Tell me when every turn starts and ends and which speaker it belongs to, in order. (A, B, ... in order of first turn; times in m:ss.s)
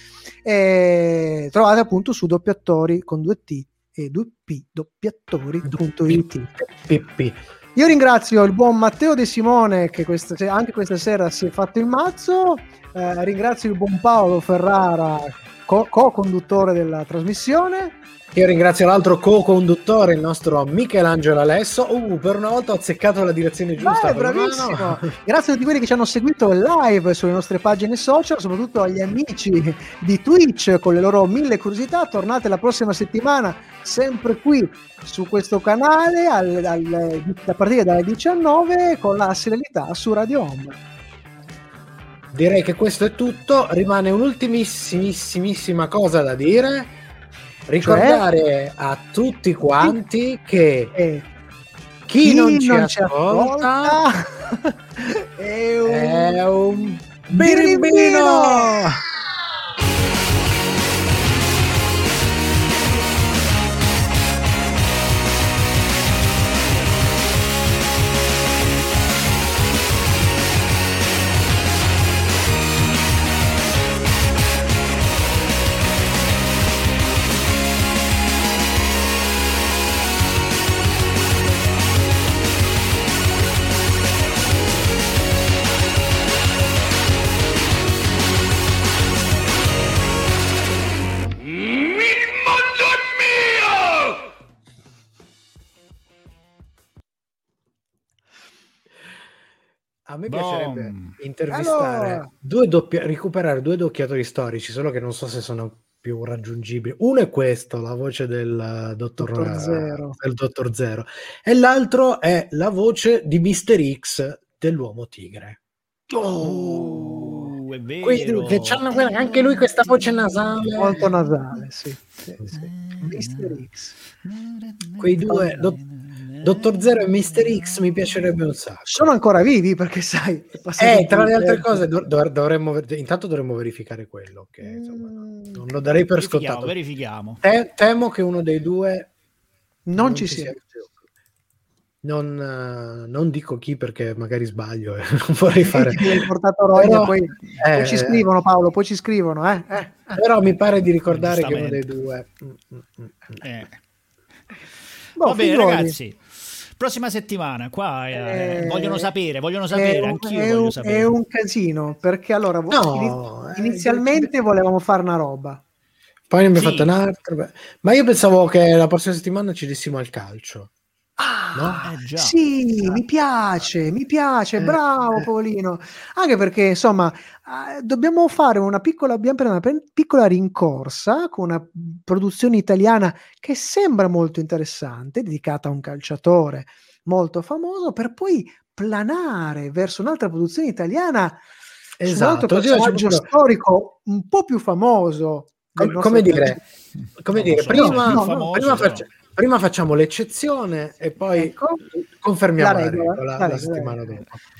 0:00.4-0:06.5 A
0:05.6-0:07.4 B
0:07.8-0:18.0 A
0:18.3-0:25.1 B
0:23.8-0:40.8 A
0:42.3-0:47.0 B
0:47.7-0:51.0 B
0:47.8-0:48.2 A
0:50.9-0:51.3 A
0:52.1-0:54.0 B
0:52.2-0:56.4 A
0:55.8-0:59.0 B
0:57.3-0:59.0 A
1:40.1-1:55.6 B
1:40.3-1:41.2 C
1:41.5-1:42.3 A
1:49.2-1:50.2 A
1:56.1-2:01.1 B
1:56.4-2:01.6 C
2:00.8-2:03.9 A
2:02.5-2:03.6 C
2:04.2-2:08.2 C
2:05.0-2:05.8 B
2:06.4-2:09.1 B
2:08.9-2:11.8 A
2:10.8-2:16.7 B
2:14.6-2:15.6 A
2:16.2-2:17.4 C
2:17.4-2:19.1 B
2:19.8-2:20.6 A
2:19.9-2:20.9 B
2:22.0-2:28.2 B
2:25.7-2:30.2 A
2:30.1-2:33.4 B
2:31.1-2:31.8 C
2:33.4-2:33.8 C
2:35.2-2:36.0 A
2:35.2-2:36.2 C
2:36.8-2:41.1 C
2:38.1-2:39.1 A
2:39.7-2:45.6 A
2:42.7-2:44.3 B
2:46.3-2:50.7 B
2:46.5-2:46.9 C
2:51.2-3:11.4 A
2:51.5-2:51.8 B
2:51.8-2:52.4 C
2:54.6-2:55.2 B
3:12.0-3:13.3 B
3:12.0-3:16.6 A
3:15.8-3:16.6 B
3:17.2-3:24.4 B
3:17.3-3:19.1 C
3:17.7-3:18.4 A
3:21.3-3:21.8 A
3:22.6-3:24.2 A